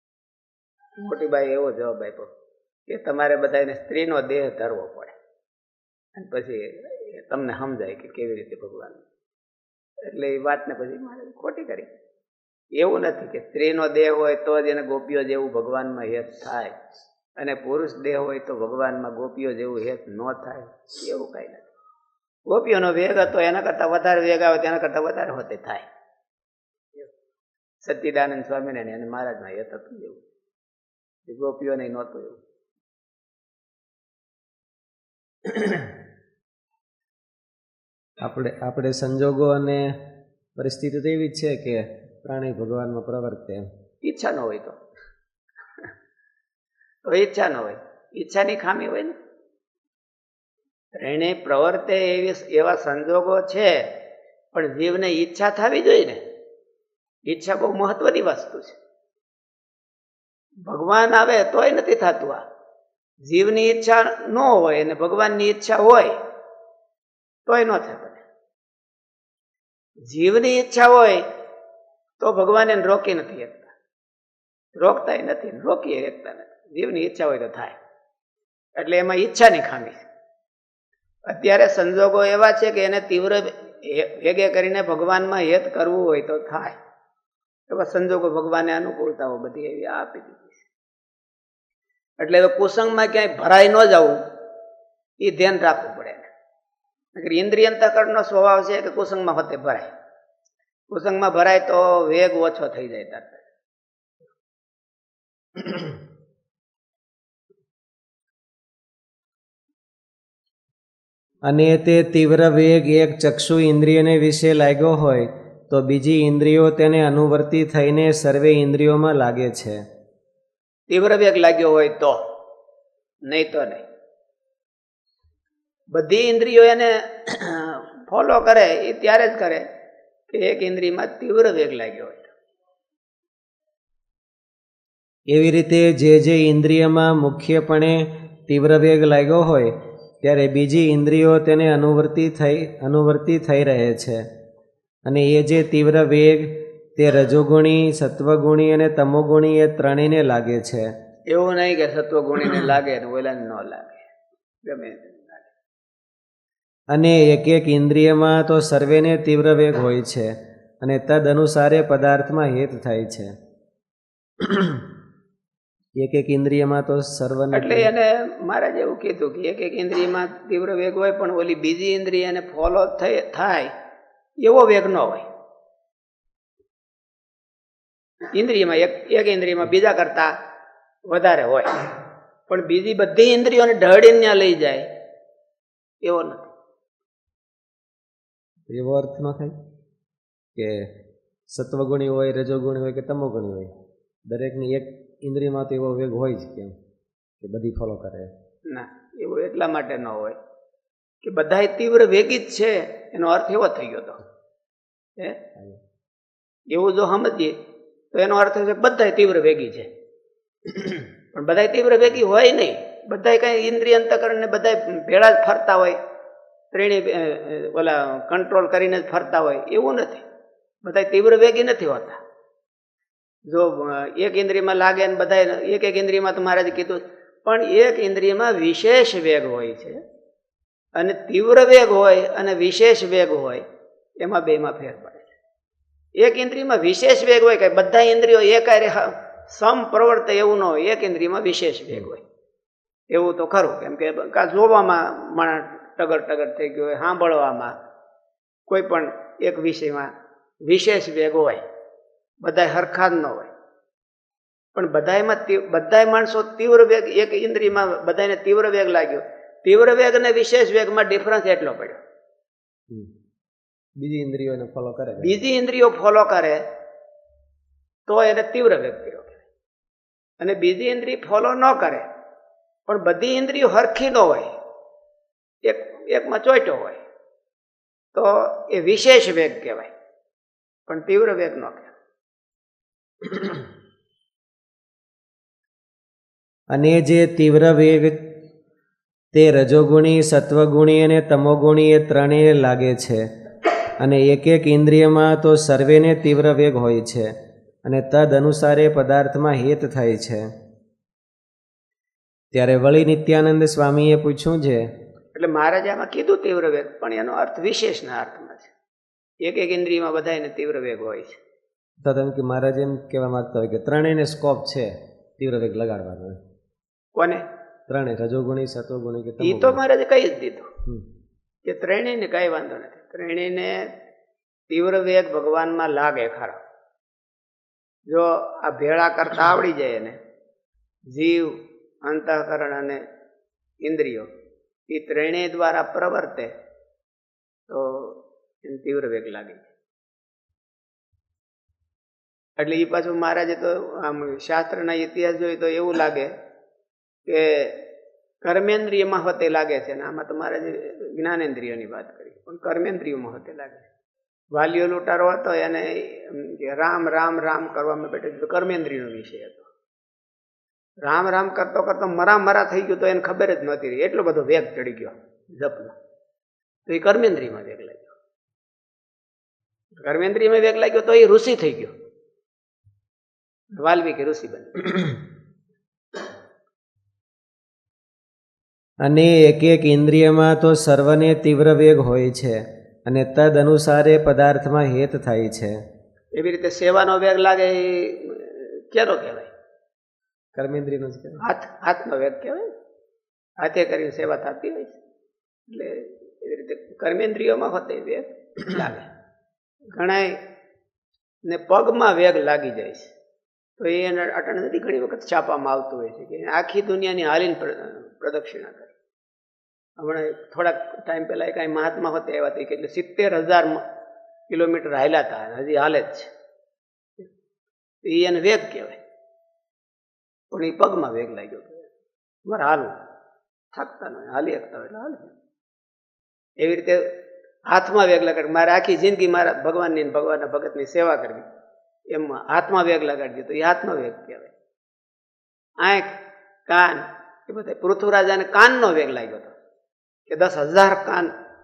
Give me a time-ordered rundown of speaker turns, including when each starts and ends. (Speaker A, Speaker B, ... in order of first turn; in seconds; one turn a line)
Speaker A: 1.0-2.3
Speaker A: 2.9-5.2
Speaker A: 6.1-9.0
Speaker A: 10.0-11.9
Speaker A: 12.8-16.8
Speaker A: 17.4-21.7
Speaker A: 22.4-25.9
Speaker A: 27.8-30.2
Speaker A: 31.2-32.4
Speaker A: 35.4-35.9
Speaker B: 38.2-40.0
Speaker B: 40.5-43.7
Speaker A: 44.0-44.8
Speaker A: 47.0-49.1
Speaker A: 50.9-53.9
Speaker A: 54.5-56.2
Speaker A: 57.2-58.8
Speaker A: 60.6-62.4
Speaker A: 63.2-66.2
Speaker A: 67.5-68.2
Speaker A: 70.0-71.3
Speaker A: 72.2-73.7
Speaker A: 74.8-77.8
Speaker A: 78.8-80.1
Speaker A: 81.2-86.8
Speaker A: 87.7-90.7
Speaker A: 92.2-94.2
Speaker A: 95.2-96.3
Speaker A: 97.1-99.9
Speaker A: 100.9-103.4
Speaker A: 105.6-105.9
Speaker B: 111.4-119.8
Speaker A: 120.9-122.2
Speaker A: 123.2-123.8
Speaker A: 125.9-129.6
Speaker A: 130.3-132.3
Speaker B: 135.3-144.2
Speaker B: 145.1-150.9
Speaker A: 151.3-154.1
Speaker A: 154.6-155.5
Speaker B: 156.9-163.3
Speaker B: 164.4-164.8
Speaker B: 166.0-167.9
Speaker A: 167.5-173.7
Speaker A: 174.4-175.3
Speaker A: 178.3-180.3
Speaker A: 181.1-181.7
Speaker A: 182.5-184.9
Speaker A: 186.0-186.5
Speaker B: 188.7-189.5
Speaker B: 190.6-190.9
Speaker B: 191.5-193.7
Speaker B: 194.3-196.8
Speaker B: 197.4-198.3
Speaker A: 198.7-200.4
Speaker A: 201.2-204.2
Speaker B: 205.5-205.8
Speaker A: 206.7-207.6
Speaker A: 208.1-209.9
Speaker A: 210.7-216.0
Speaker A: 216.7-220.2
Speaker A: 220.8-222.2
Speaker A: 223.5-230.0
Speaker A: 230.9-233.6
Speaker A: 234.2-235.3
Speaker A: 236.2-242.2
Speaker A: 243.1-247.8
Speaker A: 248.7-250.1
Speaker A: 250.7-251.6
Speaker A: 252.4-253.5
Speaker A: 254.8-262.0
Speaker B: 264.0-265.4
Speaker A: 265.2-266.7
Speaker A: 268.1-269.4
Speaker A: 270.4-272.1
Speaker A: 272.9-274.6
Speaker A: 275.6-277.0
Speaker A: 278.1-279.9
Speaker A: 280.9-281.9
Speaker A: 283.2-283.6
Speaker B: 286.7-288.2
Speaker B: 289.3-293.2
Speaker B: 294.0-300.5
Speaker B: 302.5-304.9
Speaker A: 305.3-308.7
Speaker A: 309.4-311.4
Speaker B: 312.0-316.4
Speaker A: 317.1-317.5
Speaker B: 317.9-319.8
Speaker A: 319.4-320.7
Speaker A: 321.6-323.9
Speaker A: 324.7-326.6
Speaker A: 328.1-330.2
Speaker A: 331.1-333.0
Speaker A: 333.8-334.3
Speaker A: 334.9-336.5
Speaker A: 337.7-339.7
Speaker A: 342.6-346.3
Speaker A: 347.2-347.8
Speaker A: 348.4-353.9
Speaker A: 354.5-359.7
Speaker A: 361.0-366.0
Speaker A: 366.9-368.2
Speaker A: 369.9-371.9
Speaker A: 373.7-375.2
Speaker B: 379.0-385.8
Speaker A: 386.3-389.5
Speaker B: 390.5-391.4
Speaker A: 391.4-392.7
Speaker A: 393.6-395.0
Speaker A: 395.7-399.1
Speaker A: 399.9-400.4
Speaker A: 401.4-403.1
Speaker A: 403.8-408.9
Speaker A: 410.0-413.8
Speaker A: 414.5-416.3
Speaker A: 418.0-419.0
Speaker A: 420.5-421.9
Speaker A: 422.4-423.0
Speaker A: 423.7-425.3
Speaker A: 426.6-427.1
Speaker A: 427.7-431.5
Speaker A: 432.1-434.5
Speaker A: 435.8-436.2
Speaker A: 436.7-439.5
Speaker A: 440.3-441.3